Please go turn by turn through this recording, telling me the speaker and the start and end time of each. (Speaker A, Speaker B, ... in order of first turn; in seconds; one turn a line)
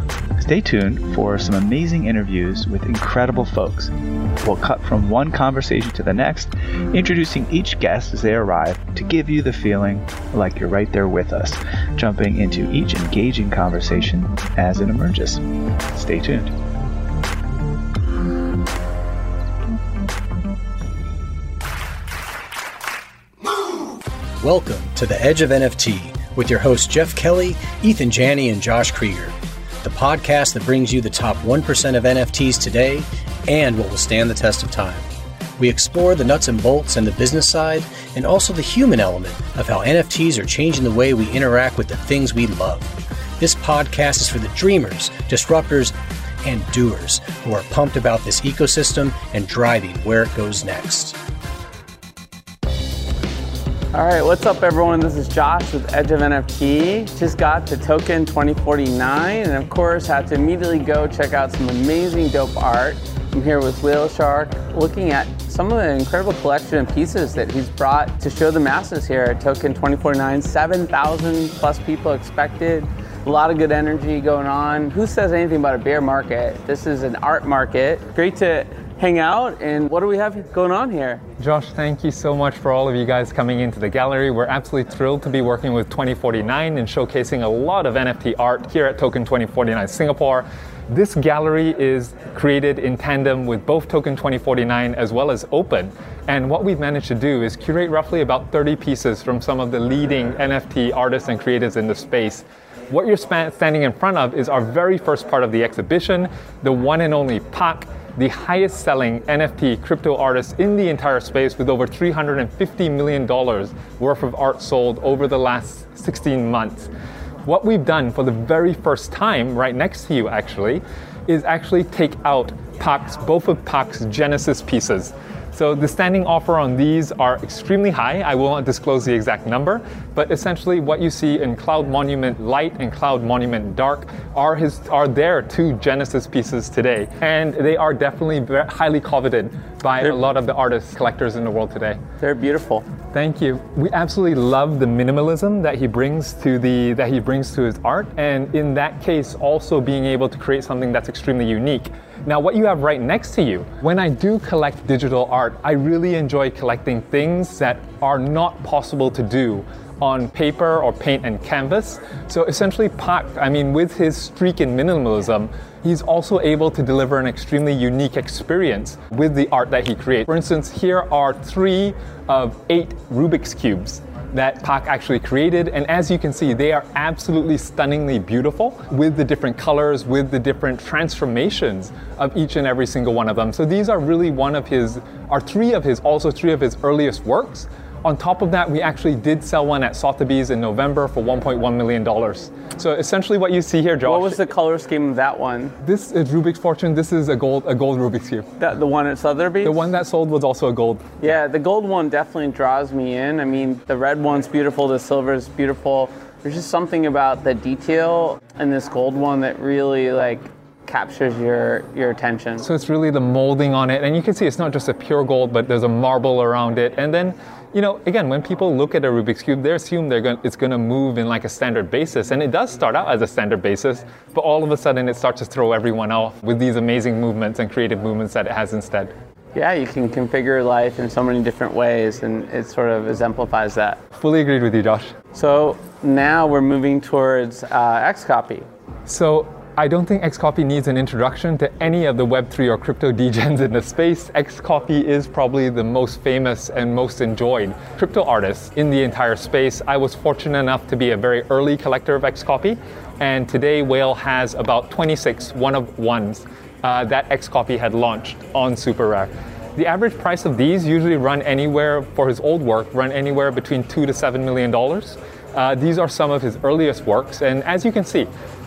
Speaker A: 0.4-16.5
Speaker B: 24.4-51.2
Speaker C: 53.9-81.2
Speaker D: 81.4-116.9
Speaker D: 117.5-142.0
Speaker C: 142.2-142.8
Speaker D: 143.1-194.4
Speaker C: 194.0-195.8
Speaker D: 195.8-198.4
Speaker C: 198.6-199.8
Speaker D: 199.6-201.3
Speaker C: 201.2-212.7
Speaker D: 212.6-229.1
Speaker C: 229.5-234.0
Speaker D: 234.2-235.1
Speaker C: 235.3-238.7
Speaker D: 239.1-268.3